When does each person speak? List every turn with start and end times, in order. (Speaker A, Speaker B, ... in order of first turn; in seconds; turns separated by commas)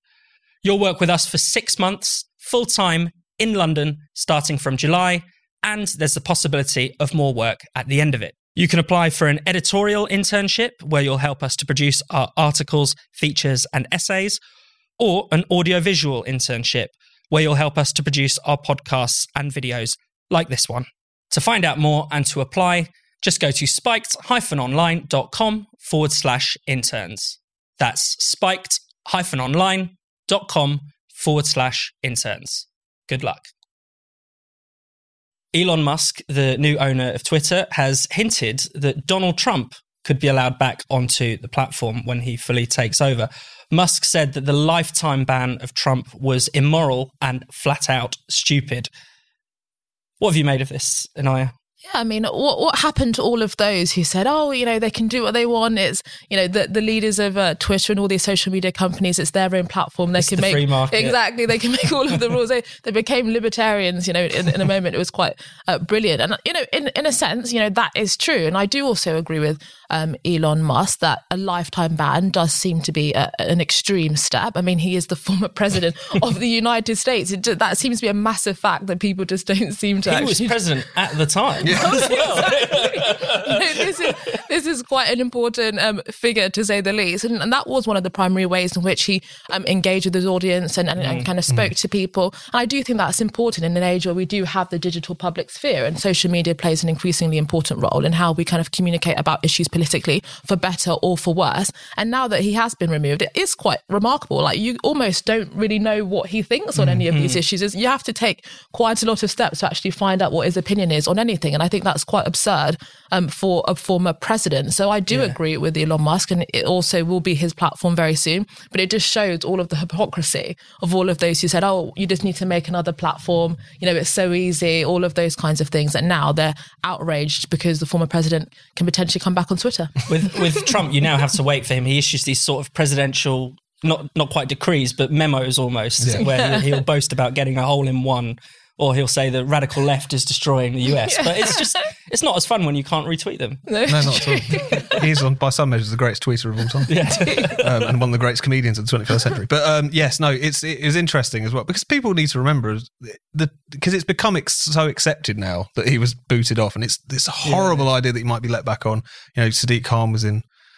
Speaker A: 0.6-14.4, Speaker A: 15.0-33.5, Speaker A: 35.5-48.9, Speaker A: 50.2-51.5, Speaker B: 51.9-80.6, Speaker A: 60.2-61.2, Speaker A: 80.1-84.3, Speaker C: 81.6-82.5, Speaker B: 81.6-130.0, Speaker A: 91.0-91.3, Speaker A: 106.8-107.4, Speaker A: 115.1-115.4, Speaker A: 130.1-143.7, Speaker C: 136.0-136.3, Speaker B: 136.2-136.7, Speaker B: 141.1-141.6, Speaker B: 143.7-145.0, Speaker C: 143.9-160.4, Speaker A: 146.9-147.8, Speaker A: 157.4-157.8